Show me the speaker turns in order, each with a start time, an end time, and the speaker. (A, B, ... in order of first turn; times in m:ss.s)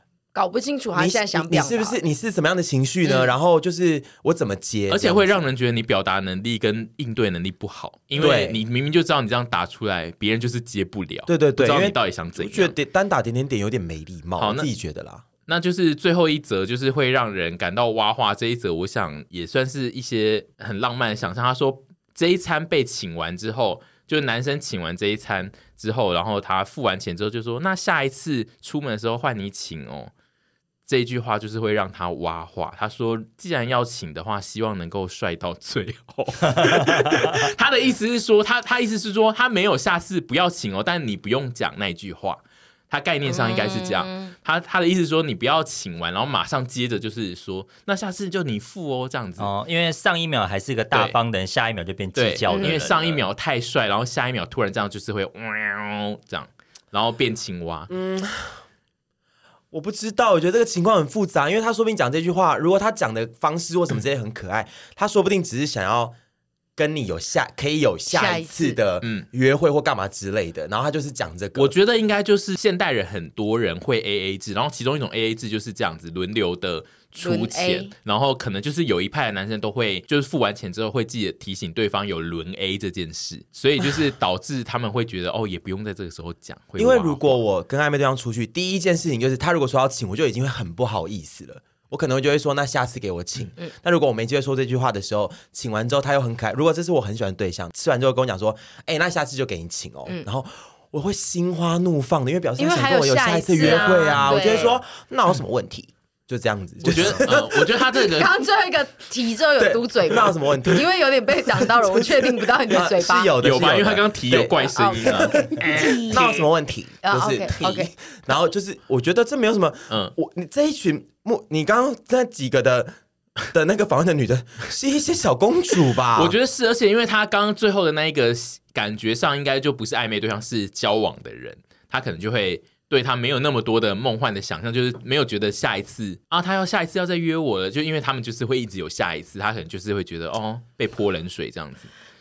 0:00.3-0:02.0 A
0:00.9-0:05.4 B
0:03.0-0:03.3 A
0:04.9-0:12.7 C
0:08.1-0:08.6 B
0:11.3-0:15.2 B
0:14.4-0:14.7 C
0:15.4-0:30.1 C
0:30.9-0:49.5 C
0:43.2-0:44.3 A
0:49.4-0:53.2 D
0:50.9-0:51.2 C
0:52.1-0:57.9 C
0:52.5-0:52.8 A
0:57.9-0:58.6 B
0:59.7-1:06.1 B
1:06.8-1:11.7 B
1:08.1-1:08.8 A
1:11.6-1:27.4 C
1:17.2-1:17.9 A
1:26.8-1:47.6 B
1:42.6-1:44.8 A
1:46.8-1:48.3 C
1:48.0-1:53.3 A
1:49.6-1:50.8 B
1:51.6-2:02.9 B
1:53.4-1:56.3 C
1:54.6-1:56.4 A
1:57.0-1:57.9 A
2:03.5-2:06.3 B
2:06.1-2:21.9 C